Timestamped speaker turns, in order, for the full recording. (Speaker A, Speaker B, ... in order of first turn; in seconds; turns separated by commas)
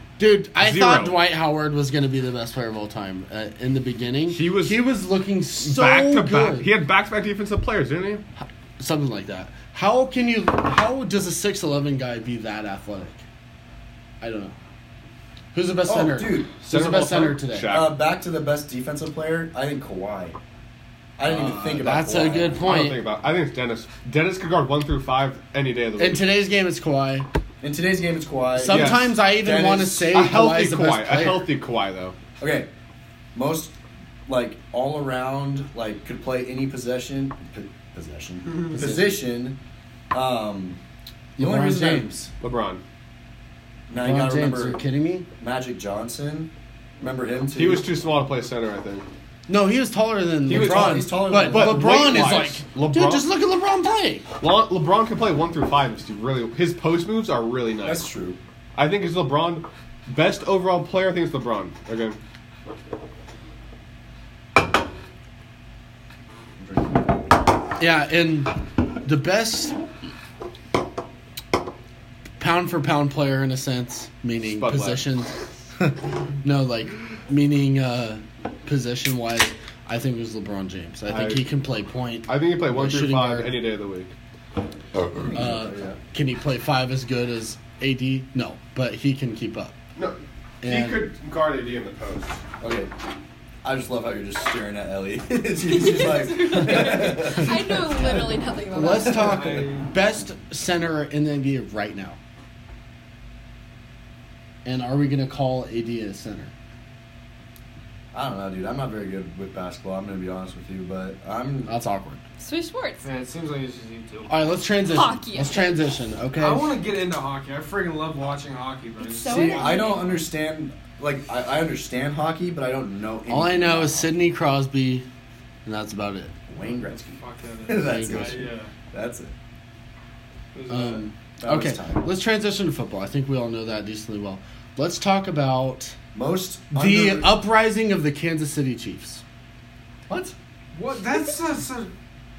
Speaker A: 0.2-6.7, Speaker B: 0.6-1.2, Speaker B: 4.3-4.8, Speaker B: 5.6-8.2, Speaker A: 8.4-13.2, Speaker A: 14.2-14.5, Speaker A: 15.5-17.8, Speaker C: 15.8-16.5, Speaker B: 16.6-17.9, Speaker C: 17.7-20.4, Speaker C: 21.2-22.6, Speaker A: 21.3-23.0, Speaker B: 22.6-26.2, Speaker A: 26.0-27.3, Speaker C: 27.6-30.2, Speaker A: 28.5-31.5, Speaker B: 28.7-29.2, Speaker B: 30.1-32.1, Speaker C: 32.4-32.7, Speaker C: 33.3-33.8, Speaker C: 34.3-39.6, Speaker A: 38.7-39.1, Speaker C: 40.1-40.8, Speaker A: 41.4-42.3, Speaker C: 41.4-42.1, Speaker B: 42.4-42.8, Speaker C: 43.9-44.8, Speaker A: 43.9-45.3, Speaker C: 45.4-47.9, Speaker B: 47.5-49.0, Speaker A: 49.5-54.2, Speaker B: 50.5-53.3, Speaker C: 50.5-52.5, Speaker B: 54.4-58.0, Speaker C: 57.8-58.4, Speaker B: 58.8-62.2, Speaker C: 66.6-67.1, Speaker A: 67.8-69.8, Speaker A: 72.4-75.3, Speaker B: 74.5-75.0, Speaker A: 76.4-83.6, Speaker B: 81.1-81.5, Speaker B: 82.3-84.1, Speaker C: 85.0-86.0, Speaker A: 85.3-89.8, Speaker B: 90.0-92.4, Speaker A: 90.6-91.1, Speaker C: 92.6-92.9, Speaker C: 93.6-98.3, Speaker D: 95.7-99.6, Speaker A: 98.7-102.2, Speaker E: 99.0-99.9, Speaker A: 104.6-106.5, Speaker C: 108.1-111.7, Speaker A: 111.7-112.2, Speaker D: 112.4-113.0, Speaker E: 113.0-114.3, Speaker A: 114.3-116.8, Speaker D: 114.9-115.8, Speaker E: 116.3-119.9, Speaker D: 119.0-120.2, Speaker C: 119.2-124.1, Speaker A: 123.3-125.0, Speaker A: 125.6-126.3, Speaker C: 126.5-129.3, Speaker E: 127.1-128.7, Speaker A: 127.8-128.5, Speaker E: 130.5-131.1, Speaker A: 130.7-135.9, Speaker C: 131.4-132.0, Speaker C: 136.1-137.4, Speaker A: 136.7-139.2, Speaker C: 140.1-140.3, Speaker E: 140.7-141.9